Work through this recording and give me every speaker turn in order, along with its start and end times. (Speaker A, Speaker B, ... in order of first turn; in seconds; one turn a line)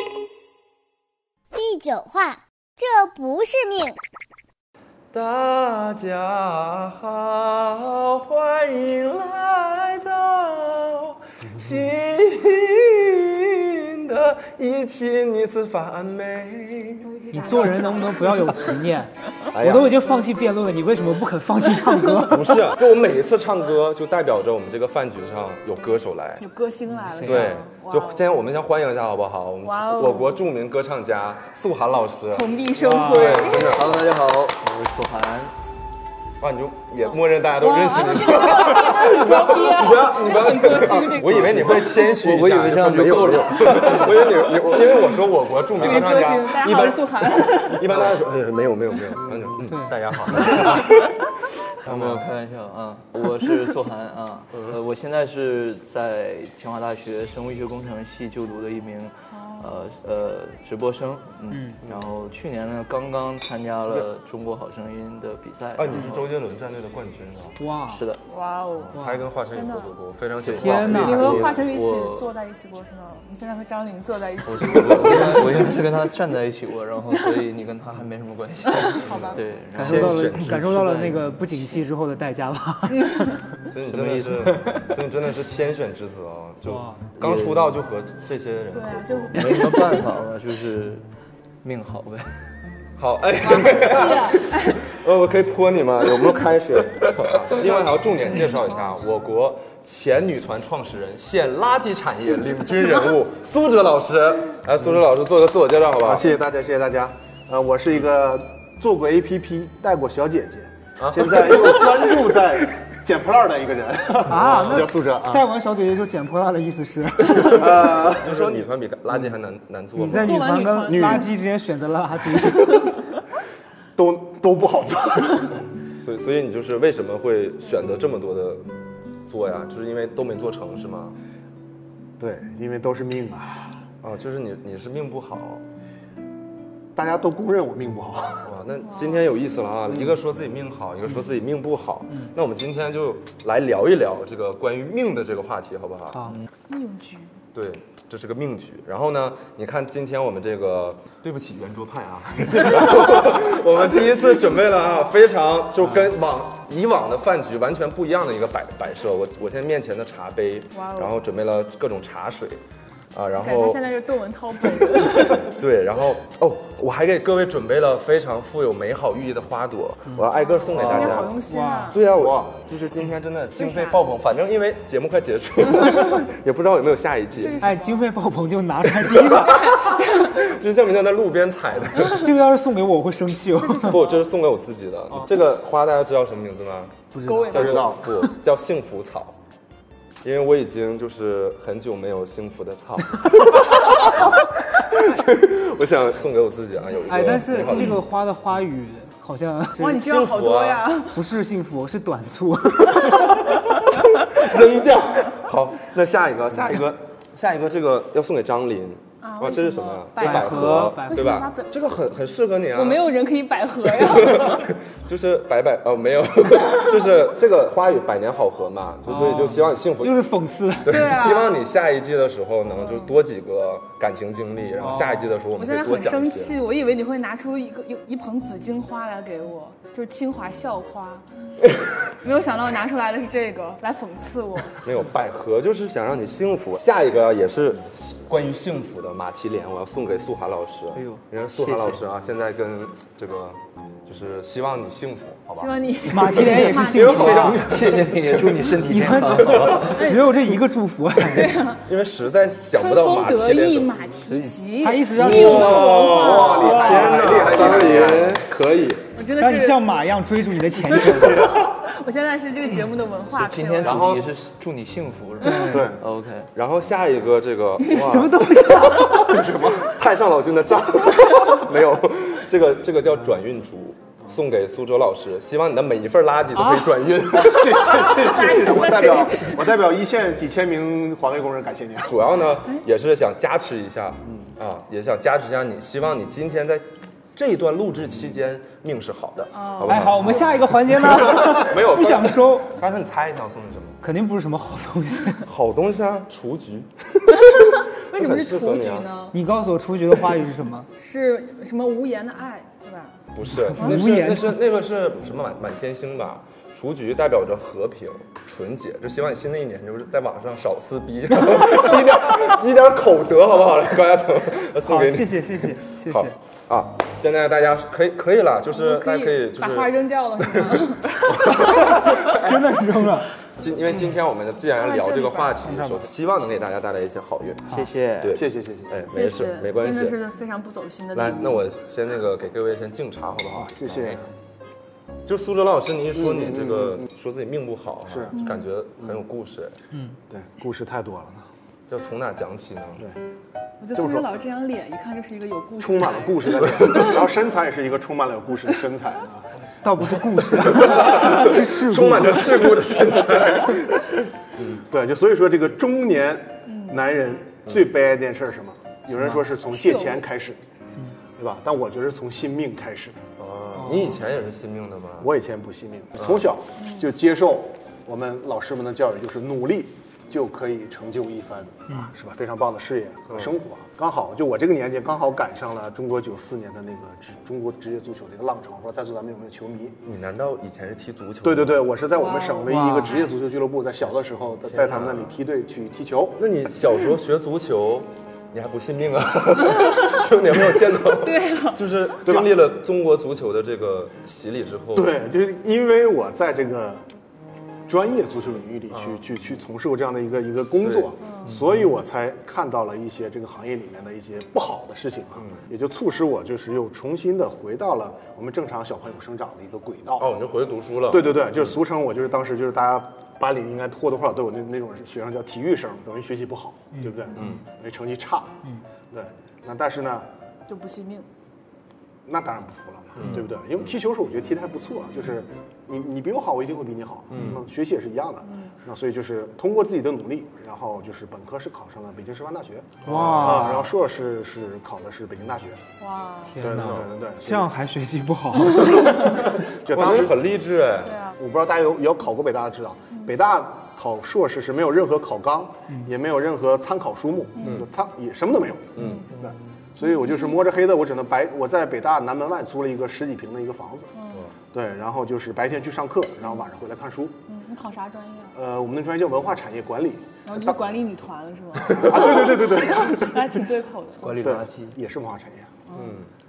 Speaker A: 1.5-4.0
Speaker B: 5.1-17.1
Speaker C: 17.0-18.8
Speaker D: 17.3-22.7
Speaker B: 19.5-20.0
Speaker B: 22.2-26.4
Speaker C: 25.9-28.3
Speaker D: 26.9-27.6
Speaker B: 27.2-34.0
Speaker C: 29.6-30.4
Speaker C: 32.3-33.8
Speaker D: 32.7-33.6
Speaker E: 33.5-35.5
Speaker B: 36.4-51.1
Speaker C: 37.1-41.9
Speaker E: 41.2-44.9
Speaker C: 45.7-47.9
Speaker D: 49.7-50.0
Speaker C: 50.6-50.8
Speaker B: 51.8-52.2
Speaker E: 51.8-66.3
Speaker C: 59.3-59.7
Speaker D: 61.5-61.8
Speaker B: 65.8-67.6
Speaker D: 67.6-68.0
Speaker E: 67.9-68.2
Speaker C: 68.2-69.9
Speaker B: 68.9-71.6
Speaker D: 69.0-69.2
Speaker E: 70.4-72.3
Speaker D: 70.5-71.4
Speaker C: 70.8-75.5
Speaker E: 74.5-81.8
Speaker B: 74.7-75.7
Speaker C: 78.9-79.4
Speaker B: 79.0-81.0
Speaker D: 79.7-83.4
Speaker C: 83.0-83.4
Speaker B: 83.7-89.5
Speaker E: 83.8-84.5
Speaker D: 84.5-84.9
Speaker D: 86.6-87.0
Speaker E: 87.2-87.8
Speaker C: 88.7-89.6
Speaker E: 89.3-91.0
Speaker E: 91.6-92.4
Speaker B: 93.0-106.3
Speaker C: 93.4-94.8
Speaker C: 97.5-98.7
Speaker F: 106.0-115.5
Speaker B: 111.0-112.0
Speaker D: 114.3-118.0
Speaker F: 117.3-118.7
Speaker B: 118.0-120.4
Speaker D: 119.9-122.9
Speaker C: 120.1-121.4
Speaker F: 120.8-121.3
Speaker C: 122.4-122.9
Speaker F: 124.0-125.6
Speaker B: 126.0-128.7
Speaker B: 129.3-131.2
Speaker F: 132.2-133.8
Speaker B: 134.0-135.6
Speaker F: 136.9-138.5
Speaker B: 138.4-146.3
Speaker C: 138.8-139.2
Speaker D: 146.1-146.4
Speaker C: 146.7-147.3
Speaker B: 147.5-162.6
Speaker C: 160.7-161.2
Speaker B: 163.1-163.8
Speaker C: 163.3-165.6
Speaker B: 164.9-171.4
Speaker C: 170.4-172.0
Speaker E: 170.8-171.2
Speaker D: 170.9-171.9
Speaker B: 171.9-177.7
Speaker F: 172.1-172.6
Speaker C: 173.6-174.0
Speaker C: 177.3-178.1
Speaker D: 177.6-180.0
Speaker B: 179.1-182.3
Speaker C: 179.4-180.4
Speaker D: 182.0-184.0
Speaker C: 183.6-184.3
Speaker B: 183.8-187.0
Speaker D: 187.1-188.3
Speaker C: 187.2-188.0
Speaker B: 187.5-189.3
Speaker F: 187.5-188.0
Speaker B: 190.2-198.0
Speaker D: 197.1-200.1
Speaker C: 199.8-201.3
Speaker B: 199.9-200.9
Speaker D: 201.1-203.9
Speaker C: 203.0-204.5
Speaker B: 204.2-213.1
Speaker C: 209.2-211.7
Speaker D: 210.2-211.5
Speaker C: 212.7-214.7
Speaker B: 213.8-220.3
Speaker D: 219.1-221.2
Speaker B: 220.8-226.6
Speaker C: 220.9-221.7
Speaker C: 222.8-223.1
Speaker D: 224.8-225.3
Speaker C: 225.5-231.2
Speaker C: 232.2-234.8
Speaker B: 234.8-248.8
Speaker E: 240.9-242.0
Speaker C: 245.5-247.7
Speaker D: 246.1-247.8
Speaker E: 247.3-250.0
Speaker D: 248.7-251.6
Speaker B: 249.4-249.9
Speaker C: 249.9-250.5
Speaker C: 251.2-251.8
Speaker B: 251.8-253.9
Speaker C: 252.8-256.7
Speaker E: 254.2-254.7
Speaker D: 254.8-257.5
Speaker B: 255.1-259.1
Speaker F: 256.1-258.4
Speaker C: 259.1-260.1
Speaker D: 259.4-261.6
Speaker C: 260.7-264.2
Speaker E: 263.3-266.5
Speaker B: 263.8-264.2
Speaker D: 265.4-265.9
Speaker F: 265.7-266.0
Speaker B: 266.5-278.3
Speaker C: 267.8-269.1
Speaker D: 267.9-269.3
Speaker F: 269.1-269.9
Speaker D: 276.6-276.9
Speaker F: 277.3-282.2
Speaker C: 278.2-279.7
Speaker B: 282.0-294.0
Speaker C: 289.5-290.2
Speaker D: 289.8-292.7
Speaker D: 294.0-295.4
Speaker B: 295.4-297.6
Speaker C: 297.3-299.4
Speaker B: 298.1-299.1
Speaker D: 299.3-300.9
Speaker C: 301.0-303.2
Speaker B: 303.3-322.4
Speaker D: 303.5-304.5
Speaker D: 314.8-316.3
Speaker C: 318.7-322.5
Speaker D: 321.8-323.3
Speaker B: 323.6-330.2
Speaker C: 324.7-325.7
Speaker D: 325.6-326.0
Speaker E: 327.7-328.4
Speaker F: 328.3-329.0
Speaker C: 329.1-331.7
Speaker B: 331.1-334.2
Speaker F: 333.5-334.3
Speaker B: 335.3-339.8
Speaker F: 336.2-337.1
Speaker F: 338.1-338.4
Speaker C: 338.3-338.7
Speaker F: 340.3-341.5
Speaker B: 341.9-343.0
Speaker C: 343.8-347.1
Speaker F: 343.9-344.3
Speaker F: 345.8-349.5
Speaker B: 346.6-347.1
Speaker D: 349.8-352.6
Speaker B: 350.6-354.8
Speaker F: 353.1-353.7
Speaker F: 354.7-360.6
Speaker C: 356.7-357.0
Speaker C: 359.5-360.2
Speaker F: 361.4-363.2
Speaker B: 363.4-365.3
Speaker D: 363.8-364.2
Speaker F: 365.2-380.0
Speaker C: 366.8-367.1
Speaker B: 380.0-381.9
Speaker F: 381.4-386.4
Speaker C: 382.1-382.7
Speaker D: 382.6-383.2
Speaker B: 384.6-385.3
Speaker B: 386.4-395.2
Speaker C: 389.8-390.1
Speaker C: 391.0-391.8
Speaker F: 392.2-392.5
Speaker F: 394.9-397.0
Speaker F: 397.9-410.3
Speaker B: 398.9-399.2
Speaker B: 400.8-401.1
Speaker C: 401.2-401.5
Speaker B: 405.4-405.6
Speaker B: 410.2-411.4
Speaker F: 411.1-420.3
Speaker D: 416.9-417.5
Speaker C: 420.7-421.2
Speaker F: 422.2-435.8
Speaker B: 423.2-423.4
Speaker B: 427.3-427.6
Speaker C: 428.4-428.7
Speaker B: 433.1-433.7
Speaker D: 433.1-433.9
Speaker C: 436.0-436.6
Speaker D: 436.5-439.3
Speaker F: 436.6-437.7
Speaker B: 436.7-437.1
Speaker F: 438.8-440.4
Speaker B: 439.9-441.1
Speaker C: 441.0-441.4
Speaker F: 441.4-454.1
Speaker C: 447.6-447.9
Speaker B: 447.6-447.9
Speaker B: 448.9-449.3
Speaker C: 449.0-449.3
Speaker C: 450.0-450.6
Speaker C: 454.2-454.5
Speaker F: 454.7-457.4
Speaker C: 457.5-458.5
Speaker F: 458.5-461.0
Speaker C: 460.4-464.3
Speaker F: 461.8-463.6
Speaker E: 464.2-465.0
Speaker F: 464.3-465.7
Speaker C: 465.9-466.1
Speaker B: 465.9-466.3